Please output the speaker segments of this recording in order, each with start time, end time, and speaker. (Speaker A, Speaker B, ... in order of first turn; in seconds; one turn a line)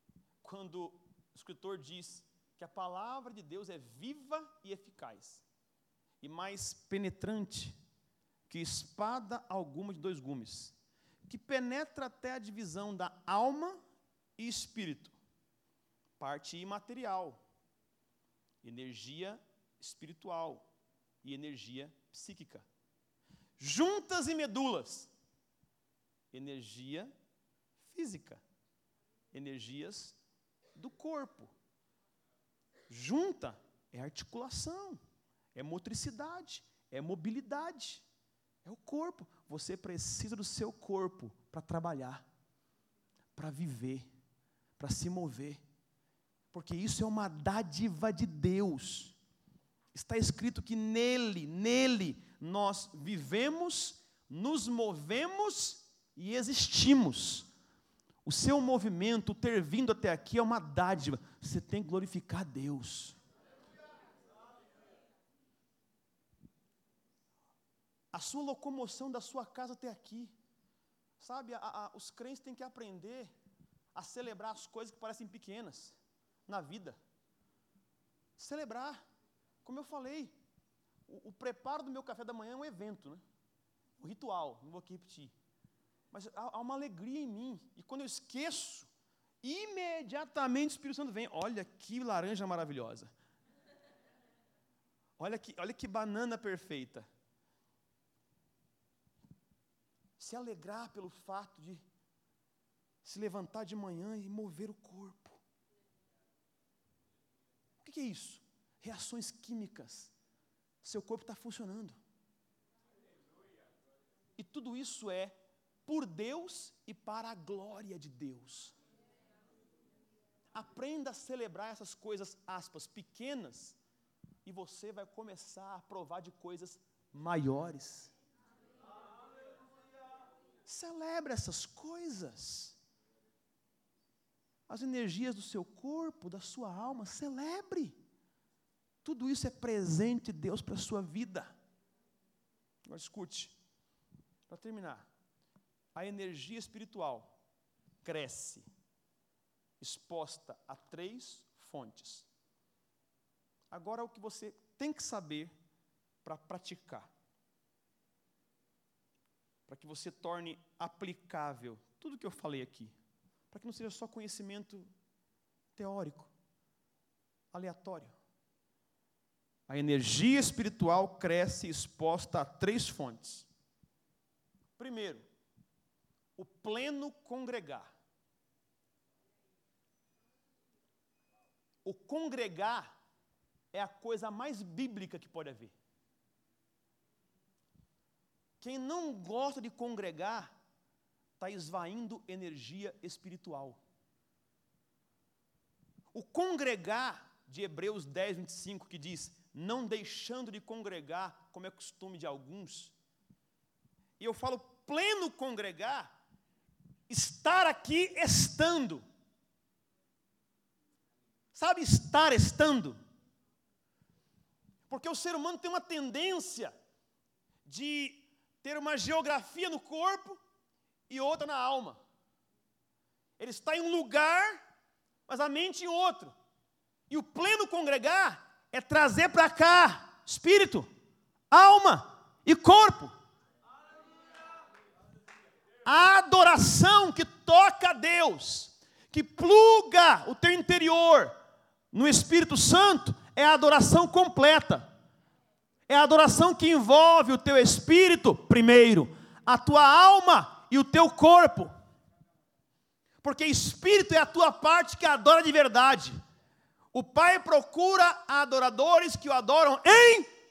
Speaker A: 0.4-5.4
Speaker A: 6.2-7.8
Speaker A: 8.5-10.7
Speaker A: 11.2-13.8
Speaker A: 14.4-15.2
Speaker A: 16.2-17.4
Speaker A: 18.6-20.7
Speaker A: 21.2-22.6
Speaker A: 23.6-25.1
Speaker A: 26.3-27.1
Speaker A: 27.8-28.4
Speaker A: 29.3-30.2
Speaker A: 30.7-31.5
Speaker A: 32.9-35.0
Speaker A: 35.5-38.0
Speaker A: 38.6-42.2
Speaker A: 43.3-44.1
Speaker A: 44.8-45.6
Speaker A: 46.5-49.1
Speaker A: 49.9-57.5
Speaker A: 58.2-63.2
Speaker A: 68.1-70.3
Speaker A: 71.2-73.3
Speaker A: 73.9-77.0
Speaker A: 78.4-79.0
Speaker A: 79.6-80.3
Speaker A: 81.1-83.2
Speaker A: 84.0-85.3
Speaker A: 86.1-88.9
Speaker A: 89.4-93.1
Speaker A: 95.2-97.0
Speaker A: 100.2-101.8
Speaker A: 103.0-105.4
Speaker A: 107.8-110.1
Speaker A: 110.8-112.0
Speaker A: 114.4-115.3
Speaker A: 115.8-118.7
Speaker A: 120.5-123.8
Speaker A: 124.4-128.1
Speaker A: 130.7-132.8
Speaker A: 134.7-138.0
Speaker A: 139.0-141.5
Speaker A: 142.9-143.5
Speaker A: 144.5-145.1
Speaker A: 145.9-147.4
Speaker A: 148.0-148.7
Speaker A: 149.8-152.3
Speaker A: 153.7-155.5
Speaker A: 156.2-157.1
Speaker A: 159.7-162.9
Speaker A: 163.5-164.9
Speaker A: 165.8-166.3
Speaker A: 167.5-168.1
Speaker A: 169.7-173.5
Speaker A: 174.8-175.2
Speaker A: 176.4-177.9
Speaker A: 181.8-182.9
Speaker A: 183.7-185.7
Speaker A: 188.6-190.5
Speaker A: 191.4-193.8
Speaker A: 196.1-202.9
Speaker A: 204.2-206.1
Speaker A: 207.1-209.0
Speaker A: 211.5-213.0
Speaker A: 214.9-216.7
Speaker A: 217.6-220.4
Speaker A: 221.1-222.0
Speaker A: 223.4-224.6
Speaker A: 225.3-226.3
Speaker A: 227.1-230.9
Speaker A: 231.5-233.1
Speaker A: 235.8-241.3
Speaker A: 241.9-244.9
Speaker A: 245.9-251.7
Speaker A: 253.2-256.2
Speaker A: 256.9-260.3